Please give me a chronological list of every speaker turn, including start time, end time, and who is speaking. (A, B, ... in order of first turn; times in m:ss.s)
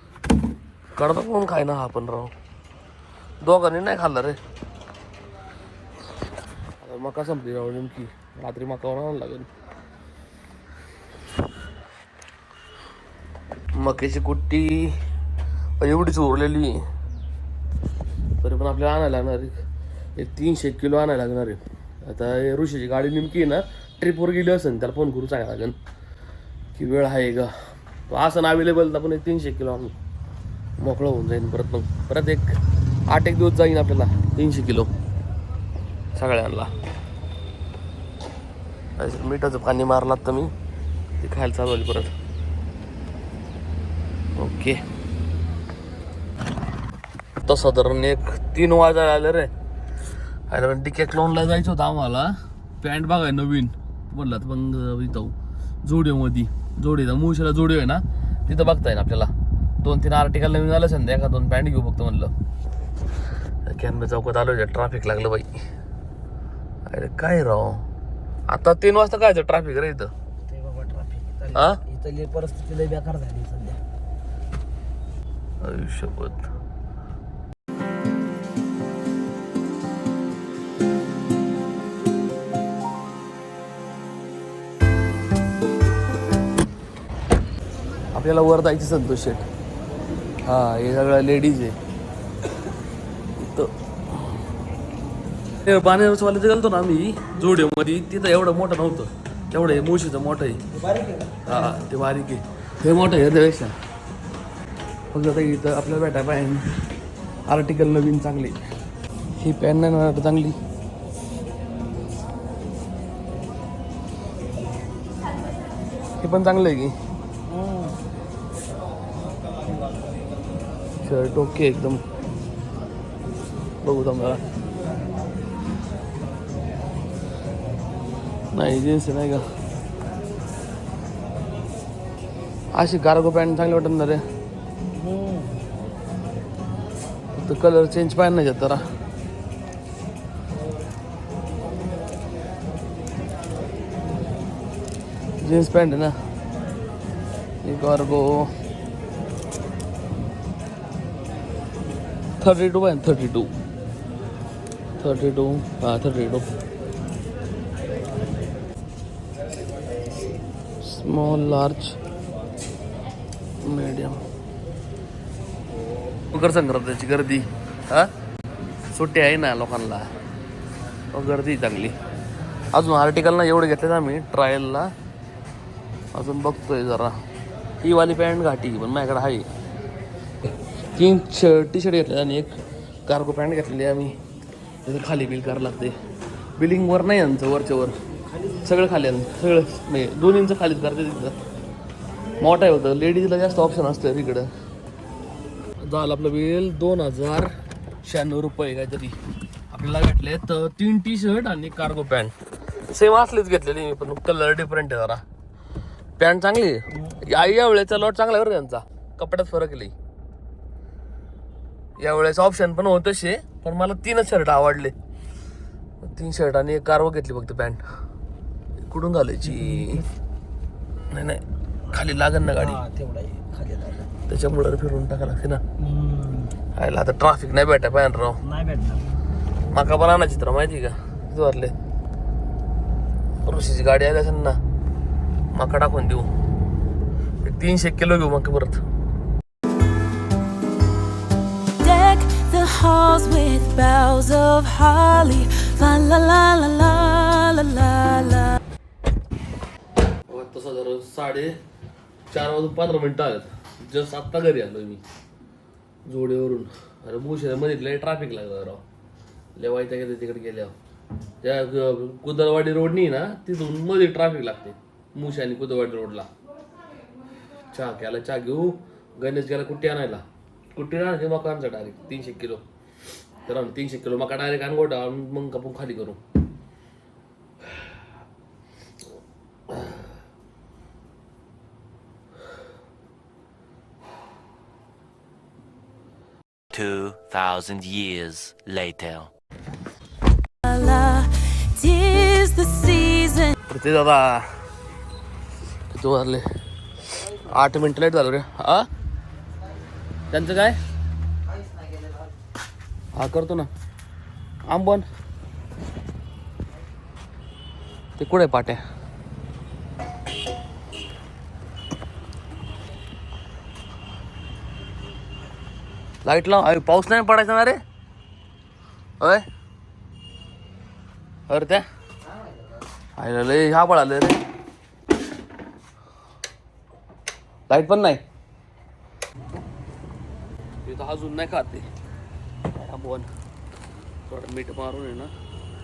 0:01.0-0:02.3 A
0:03.4-0:04.4 A
0:06.8-0:09.5 A
0:13.8-0:15.0 A
0:15.8-0:16.8 A
0:18.4-0:19.6 A
0:20.2-0:25.8 A
0:26.8-0:27.5 A
0:28.1-0:30.0 A
0:30.8-0:32.6 A
0:33.1-0:34.9 A
0:36.2-0:36.7 A
0:39.0-0:40.5 A
0:41.2-0:42.1 A
0:44.4-0:44.8 A
0:47.4-0:49.5 A
0:50.5-0:59.3 A
0:59.8-1:02.3 A
1:03.7-1:05.6 A
1:06.9-1:07.8 A
1:08.5-1:10.1 A
1:10.5-1:13.8 B
1:11.5-1:11.8 A
1:15.6-1:16.5 A
1:28.1-1:29.5 A
1:30.4-1:31.8 A
1:33.4-1:33.7 A
1:35.6-1:40.6 A
1:41.4-1:43.8 A
1:45.1-1:46.8 A
1:47.5-1:48.6 A
1:49.4-1:50.6 A
1:56.2-1:57.0 A
1:57.5-1:58.0 B
2:01.0-2:02.0 A
2:03.8-2:04.4 A
2:08.5-2:09.4 A
2:12.7-2:14.2 A
2:15.0-2:15.5 B
2:17.4-2:18.8 A
2:25.4-2:26.2 A
2:27.6-2:28.5 A
2:32.4-2:33.5 A
2:35.0-2:36.5 A
2:40.8-2:42.0 A
2:43.6-2:44.2 A
2:46.3-2:48.1 A
2:48.9-2:50.1 A
2:51.1-2:52.0 A
2:52.7-2:54.9 A
2:56.1-2:57.2 A
2:57.8-2:59.5 A
3:01.0-3:04.2 A
3:04.9-3:06.0 A
3:06.6-3:07.9 A
3:08.6-3:11.4 A
3:12.4-3:14.5 A
3:15.8-3:17.5 A
3:18.0-3:19.2 A
3:19.7-3:25.2 A
3:26.2-3:29.9 A
3:32.0-3:35.0 A
3:36.0-3:37.8 A
3:38.8-3:40.1 A
3:41.1-3:42.8 A
3:42.6-3:44.1 B
3:44.3-3:45.6 A
3:45.8-3:46.5 B
3:46.8-3:48.4 A
3:48.4-3:49.0 B
3:49.7-3:51.7 A
3:53.4-3:54.6 A
3:55.5-3:56.3 A
3:57.4-3:58.8 A
4:01.8-4:08.6 C
4:10.3-4:11.6 A
4:12.3-4:15.0 A
4:16.1-4:18.8 A
4:19.6-4:20.7 A
4:21.4-4:26.3 A
4:27.7-4:32.6 A
4:33.4-4:36.2 A
4:46.7-4:49.3 D
4:50.6-4:53.6 C
4:53.7-4:54.5 A
4:55.9-4:56.5 A
4:57.2-4:58.9 A
5:00.3-5:00.8 A
5:03.1-5:03.7 A
5:04.7-5:05.1 A
5:08.2-5:08.8 A
5:16.2-5:17.8 A
5:21.5-5:21.8 A
5:23.2-5:24.4 A
5:27.7-5:28.2 A
5:30.8-5:31.9 A
5:32.7-5:33.3 A
5:34.3-5:35.3 A